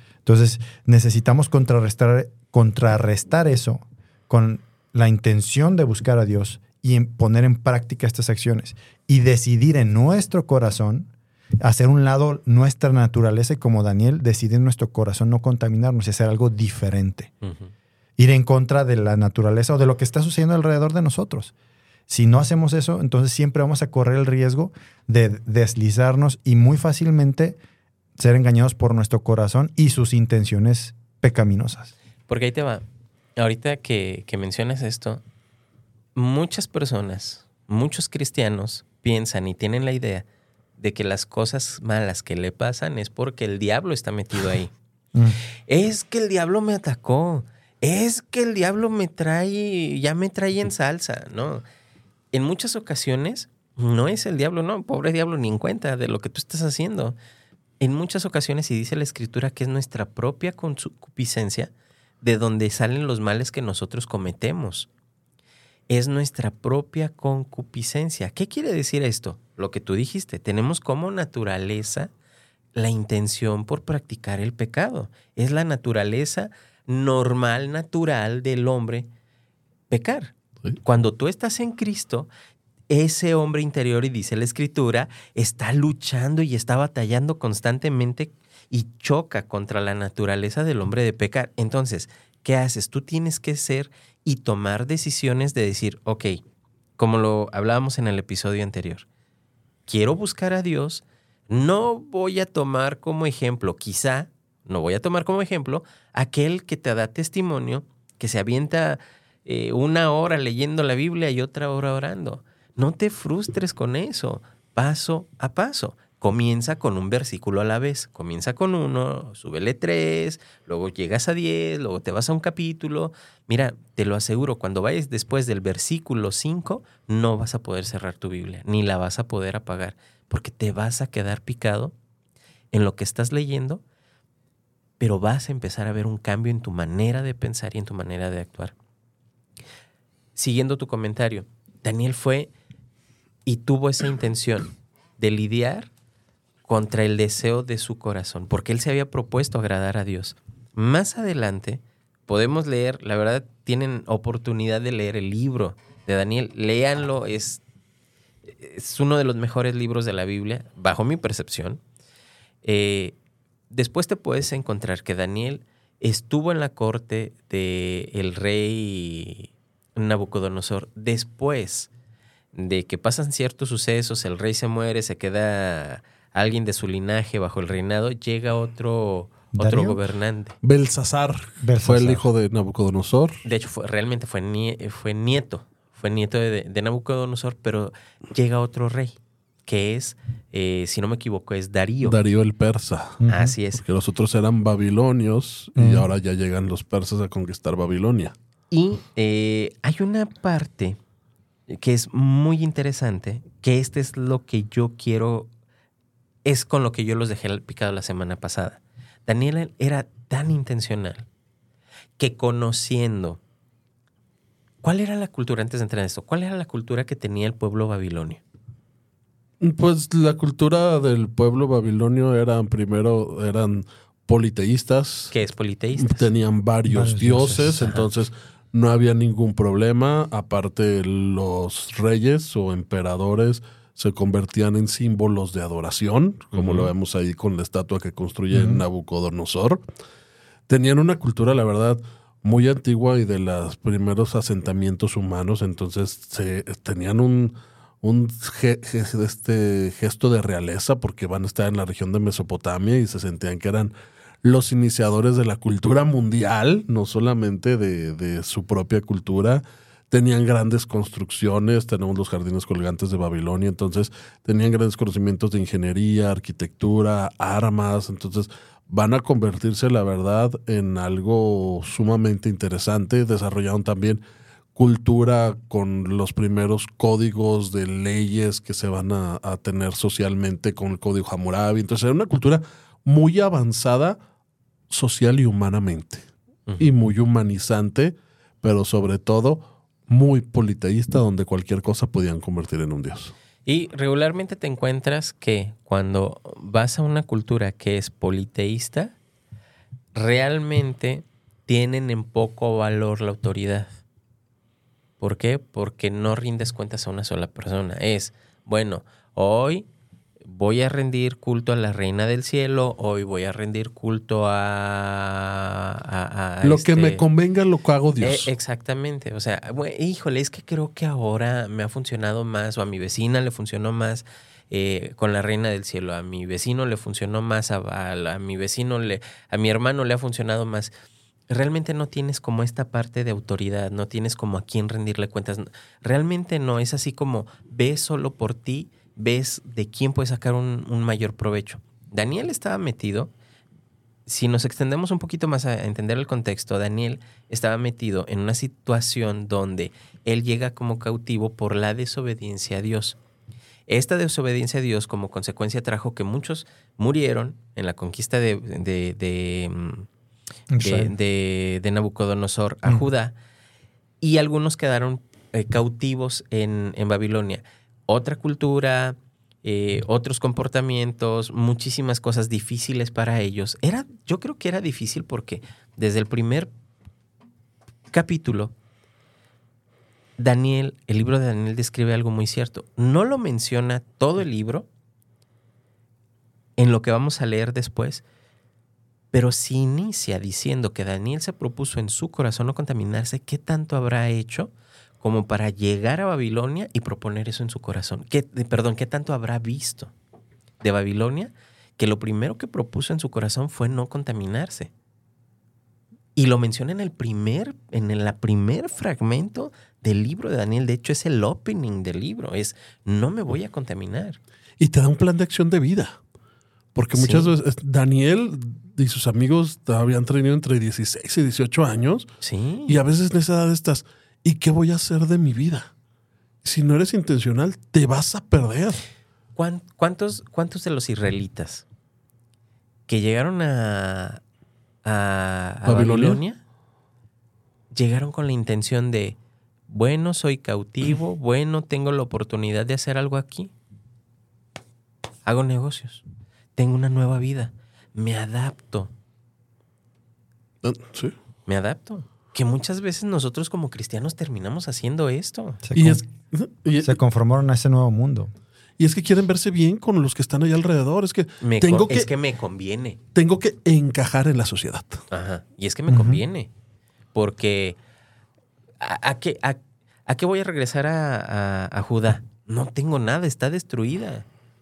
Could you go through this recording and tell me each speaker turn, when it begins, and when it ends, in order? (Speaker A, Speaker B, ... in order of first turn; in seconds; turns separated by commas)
Speaker A: 0.2-11.1, Speaker A: 11.6-17.3, Speaker B: 17.4-17.7, Speaker A: 18.2-21.5, Speaker A: 22.1-27.6, Speaker A: 28.2-31.9, Speaker B: 32.3-32.8, Speaker B: 33.4-35.2, Speaker B: 36.1-40.2, Speaker B: 40.8-44.7, Speaker B: 45.7-51.6, Speaker B: 52.3-57.1, Speaker B: 57.8-61.7, Speaker B: 62.2-64.9, Speaker B: 65.9-72.1, Speaker B: 72.8-79.1, Speaker B: 79.9-82.3, Speaker B: 82.9-96.4, Speaker B: 97.0-99.1, Speaker B: 99.9-131.9, Speaker B: 132.7-133.8, Speaker B: 135.0-138.7, Speaker B: 140.3-142.5, Speaker B: 143.4-145.9, Speaker B: 146.7-157.6, Speaker B: 158.6-161.8, Speaker B: 162.6-163.2, Speaker B: 163.7-171.9, Speaker B: 172.5-180.6, Speaker A: 179.5-180.0, Speaker C: 180.6-183.4, Speaker A: 181.6-182.3, Speaker B: 183.4-192.2, Speaker C: 192.0-193.2, Speaker A: 193.2-193.5, Speaker B: 193.3-193.8, Speaker C: 193.7-198.3, Speaker A: 195.8-196.1, Speaker B: 198.7-201.0, Speaker B: 201.7-205.5, Speaker B: 206.4-211.3, Speaker B: 212.2-213.4, Speaker B: 214.8-218.4, Speaker C: 219.6-225.3, Speaker B: 225.3-226.2, Speaker C: 226.0-239.8, Speaker A: 226.9-227.9, Speaker B: 236.5-236.9, Speaker A: 238.5-238.8, Speaker C: 240.7-253.9, Speaker C: 254.4-274.2, Speaker C: 274.7-284.2, Speaker C: 284.9-286.3, Speaker C: 286.8-293.3, Speaker B: 293.7-299.2, Speaker B: 300.1-304.0, Speaker B: 305.2-309.9, Speaker B: 310.4-317.2, Speaker C: 316.6-318.5, Speaker B: 318.2-330.9, Speaker B: 331.5-343.3, Speaker B: 344.3-353.2, Speaker B: 353.9-360.1, Speaker A: 360.7-361.1, Speaker B: 360.8-363.4, Speaker B: 364.2-376.7, Speaker B: 378.1-378.7, Speaker B: 380.4-384.9, Speaker B: 386.8-388.2, Speaker B: 389.3-400.1, Speaker B: 400.8-404.9, Speaker B: 406.3-414.4, Speaker C: 414.8-416.2, Speaker C: 416.9-422.3, Speaker B: 417.1-417.5, Speaker B: 422.4-423.0, Speaker C: 422.9-425.9, Speaker C: 426.6-429.0, Speaker B: 429.6-431.8, Speaker B: 433.1-434.4, Speaker B: 435.1-436.6, Speaker C: 435.9-436.4, Speaker B: 437.9-439.4, Speaker B: 439.9-443.7, Speaker B: 445.4-446.2, Speaker B: 446.8-449.1, Speaker C: 450.8-451.3, Speaker B: 451.7-455.8, Speaker A: 455.8-456.2, Speaker C: 455.9-457.2, Speaker A: 457.0-458.5, Speaker C: 459.0-462.3, Speaker B: 461.6-463.2, Speaker C: 463.3-465.2, Speaker B: 465.3-466.7, Speaker A: 466.1-466.4, Speaker B: 467.3-468.0, Speaker B: 469.0-474.4